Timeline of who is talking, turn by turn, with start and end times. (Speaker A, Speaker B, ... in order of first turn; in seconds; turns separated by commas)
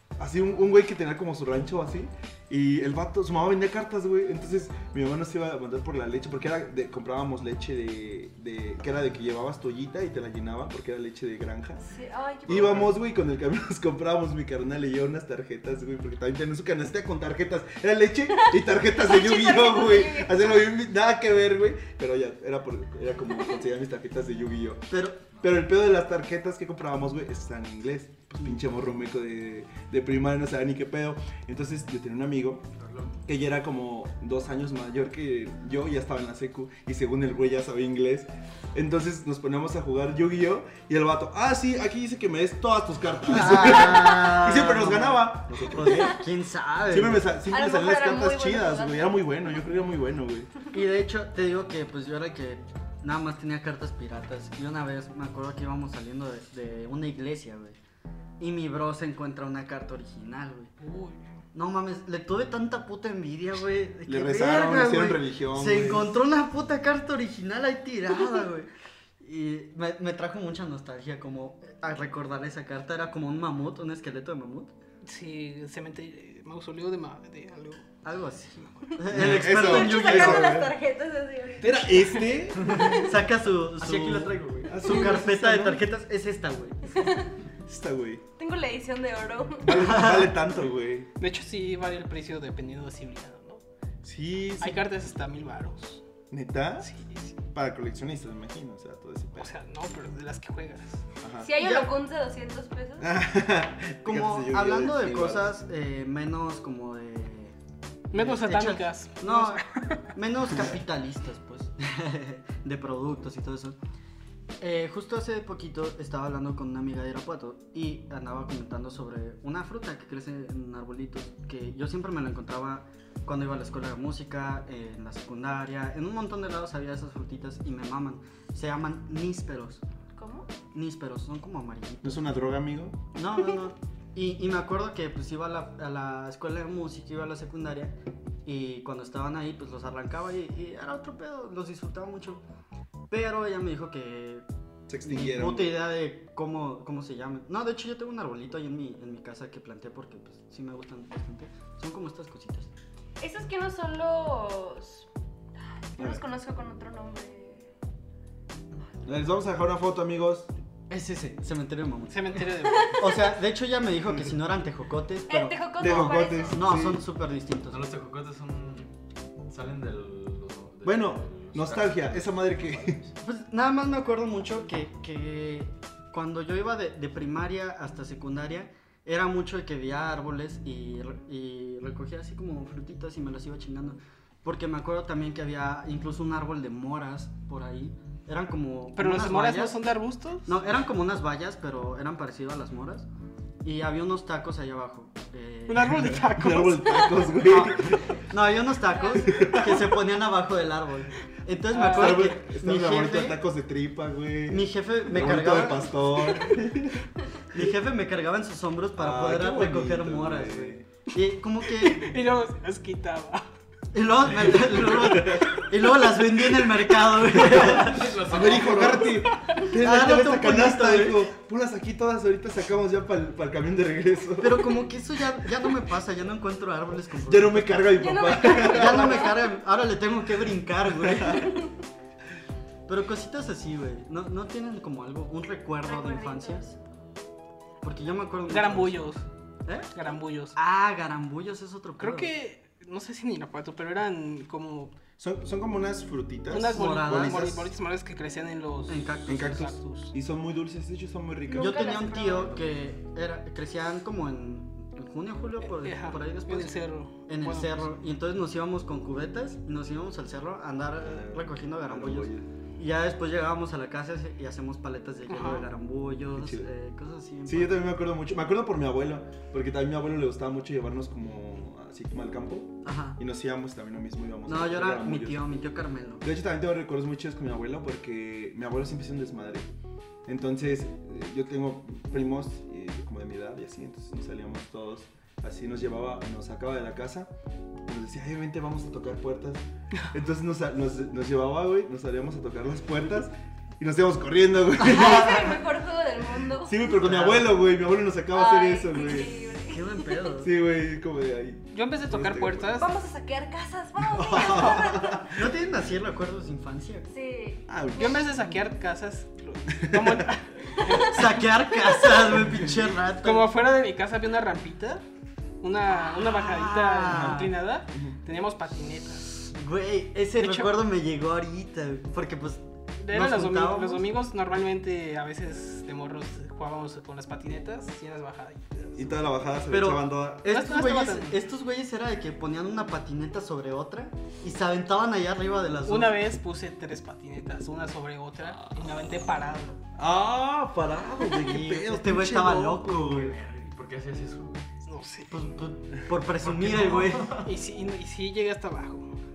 Speaker A: 0.2-11.8, Speaker B: 11.8-12.9, Speaker A: 12.4-32.6, Speaker C: 12.5-12.8, Speaker B: 18.4-20.6, Speaker D: 24.9-25.2, Speaker C: 25.3-25.6, Speaker C: 32.7-33.2, Speaker A: 33.2-46.2, Speaker D: 43.2-47.3, Speaker A: 46.9-50.5, Speaker B: 47.5-49.6, Speaker D: 50.7-57.8, Speaker D: 58.4-60.7, Speaker E: 60.8-61.3, Speaker D: 61.5-68.7, Speaker A: 64.0-66.2, Speaker D: 69.2-74.7, Speaker E: 75.0-77.8, Speaker D: 78.0-80.6, Speaker A: 79.1-80.8, Speaker B: 79.2-82.1, Speaker E: 81.6-82.4, Speaker A: 81.6-82.9, Speaker C: 82.6-83.1, Speaker D: 82.6-87.0, Speaker C: 83.8-84.8, Speaker A: 84.7-85.8, Speaker B: 87.0-87.3, Speaker A: 87.6-88.2, Speaker B: 88.4-90.0, Speaker A: 89.6-91.1, Speaker E: 91.2-93.6, Speaker A: 94.0-94.9, Speaker E: 94.6-96.0, Speaker A: 96.3-96.9, Speaker E: 96.8-97.4, Speaker A: 97.5-99.5, Speaker E: 99.3-101.0, Speaker A: 101.2-101.5, Speaker B: 101.4-103.1, Speaker D: 101.5-101.9, Speaker A: 103.0-105.5, Speaker D: 104.0-107.5, Speaker E: 108.1-110.0, Speaker D: 108.1-113.8, Speaker D: 114.6-129.8, Speaker B: 130.1-130.5, Speaker D: 130.7-132.2, Speaker A: 132.0-133.0, Speaker D: 133.1-142.4, Speaker D: 143.1-144.4, Speaker A: 144.9-145.8, Speaker D: 145.0-152.7, Speaker B: 153.2-155.1, Speaker B: 155.9-157.7, Speaker A: 156.0-156.2, Speaker A: 159.0-160.5, Speaker D: 160.9-167.9, Speaker E: 162.1-163.2, Speaker B: 162.6-163.0, Speaker B: 165.3-166.6, Speaker A: 165.8-167.0, Speaker C: 167.7-168.9, Speaker C: 169.5-173.1, Speaker A: 170.8-173.0, Speaker D: 173.2-189.8, Speaker E: 188.9-190.5, Speaker D: 190.4-193.1, Speaker D: 193.6-196.2, Speaker E: 195.7-197.9, Speaker A: 195.9-198.2, Speaker D: 197.4-203.4, Speaker B: 198.9-199.4, Speaker A: 199.2-199.9, Speaker E: 201.7-202.4, Speaker A: 201.8-207.0, Speaker D: 204.5-206.5, Speaker D: 207.5-212.1, Speaker A: 208.9-210.9, Speaker E: 211.6-213.5, Speaker D: 213.9-221.3, Speaker A: 214.7-215.6, Speaker E: 215.1-215.7, Speaker A: 217.3-224.8, Speaker C: 217.4-219.1, Speaker D: 224.4-231.6, Speaker A: 227.2-229.4, Speaker B: 227.9-229.5, Speaker A: 231.0-231.5, Speaker B: 231.2-231.7, Speaker D: 232.9-236.8, Speaker B: 235.8-236.7, Speaker D: 237.8-239.1, Speaker E: 238.5-239.3, Speaker D: 239.7-242.3, Speaker E: 239.9-240.6, Speaker E: 242.0-244.9, Speaker A: 245.2-247.5, Speaker E: 246.5-250.1, Speaker D: 246.7-247.7, Speaker D: 248.9-249.8, Speaker A: 249.3-252.6, Speaker B: 251.5-252.7, Speaker D: 251.5-267.9, Speaker E: 255.6-258.0, Speaker A: 261.0-262.5, Speaker E: 265.3-265.7, Speaker A: 266.3-266.7, Speaker A: 267.4-275.4, Speaker D: 272.8-273.2, Speaker D: 274.4-276.2, Speaker A: 276.2-279.7, Speaker A: 280.2-287.3, Speaker A: 287.9-295.6, Speaker B: 294.8-296.8, Speaker A: 296.4-299.5, Speaker D: 296.9-297.6, Speaker B: 298.3-300.1, Speaker D: 299.6-300.5, Speaker A: 300.4-302.8, Speaker E: 301.7-302.9, Speaker B: 302.8-305.4, Speaker A: 304.0-305.5, Speaker D: 305.2-307.1, Speaker B: 307.1-308.2, Speaker A: 307.7-308.5, Speaker E: 307.9-312.4, Speaker A: 309.8-310.3, Speaker D: 311.0-313.5, Speaker E: 313.0-315.0, Speaker E: 315.6-319.4, Speaker D: 316.0-317.5, Speaker A: 317.1-318.1, Speaker D: 319.4-324.1, Speaker E: 320.4-320.8, Speaker E: 323.0-329.3, Speaker A: 329.0-330.5, Speaker D: 329.7-336.2, Speaker E: 330.5-331.4, Speaker E: 335.9-339.8, Speaker A: 339.9-343.3, Speaker D: 341.3-343.3, Speaker C: 343.0-344.6, Speaker E: 344.9-345.4, Speaker D: 345.3-347.5, Speaker C: 346.3-347.5, Speaker E: 347.4-349.1